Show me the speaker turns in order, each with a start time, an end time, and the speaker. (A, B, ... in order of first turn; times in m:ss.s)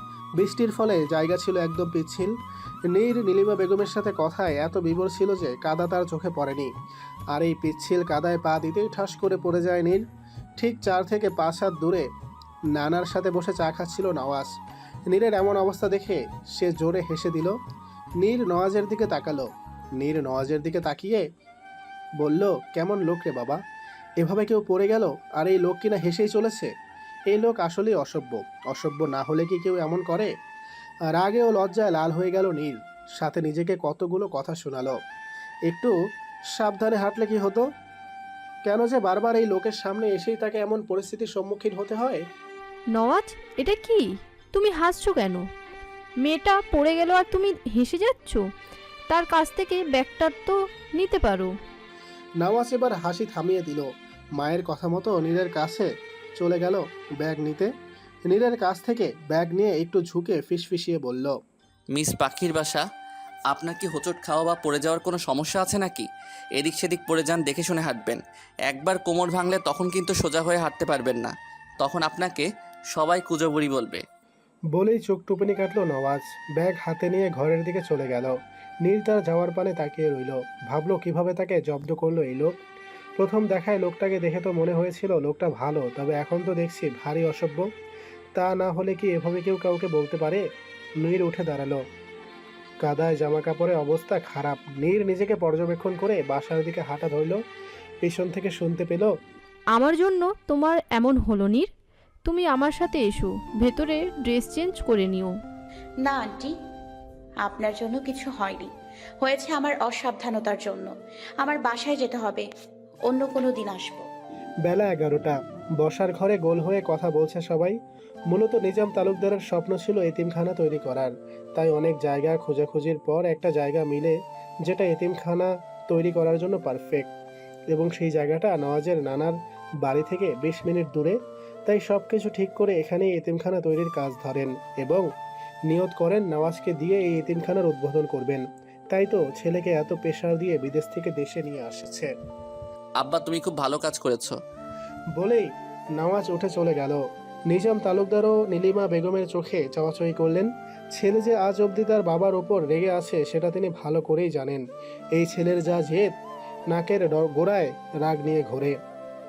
0:00.4-0:02.3 A
0:02.9-0:06.7 A
0:07.3-0:10.0 A
0:10.6-0:12.1 A
0:12.7-0:14.5 A
0:15.1-0:17.5 A
0:18.2-0:21.2 A
0:22.2-0:23.6 A
0:24.2-0:26.7 A
0:27.3-0:30.3 A
0:31.1-0:35.0 A
0:35.7-0:35.9 A
0:36.5-0:37.7 A
0:38.6-0:42.2 A
0:42.9-0:45.4 B
0:46.2-0:48.5 B
0:49.1-0:51.5 B
0:52.4-0:57.7 A
0:58.3-1:01.4 A
1:01.9-1:02.8 C
1:03.5-1:14.0 C
1:14.7-1:22.5 A
1:23.2-1:27.7 A
1:28.4-1:30.4 A
1:31.0-1:31.8 A
1:32.8-1:37.4 A
1:38.0-1:39.1 A
1:39.7-1:41.7 B
1:42.2-1:45.3 B
1:46.0-1:46.5 D
1:47.4-1:48.7 D
1:49.2-1:52.5 D
1:53.1-1:54.0 D
1:54.6-1:57.8 A
1:58.3-2:07.1 A
2:07.7-2:15.1 A
2:15.7-2:22.1 A
2:23.0-2:24.4 C
2:25.2-2:36.1 A
2:36.7-2:38.8 A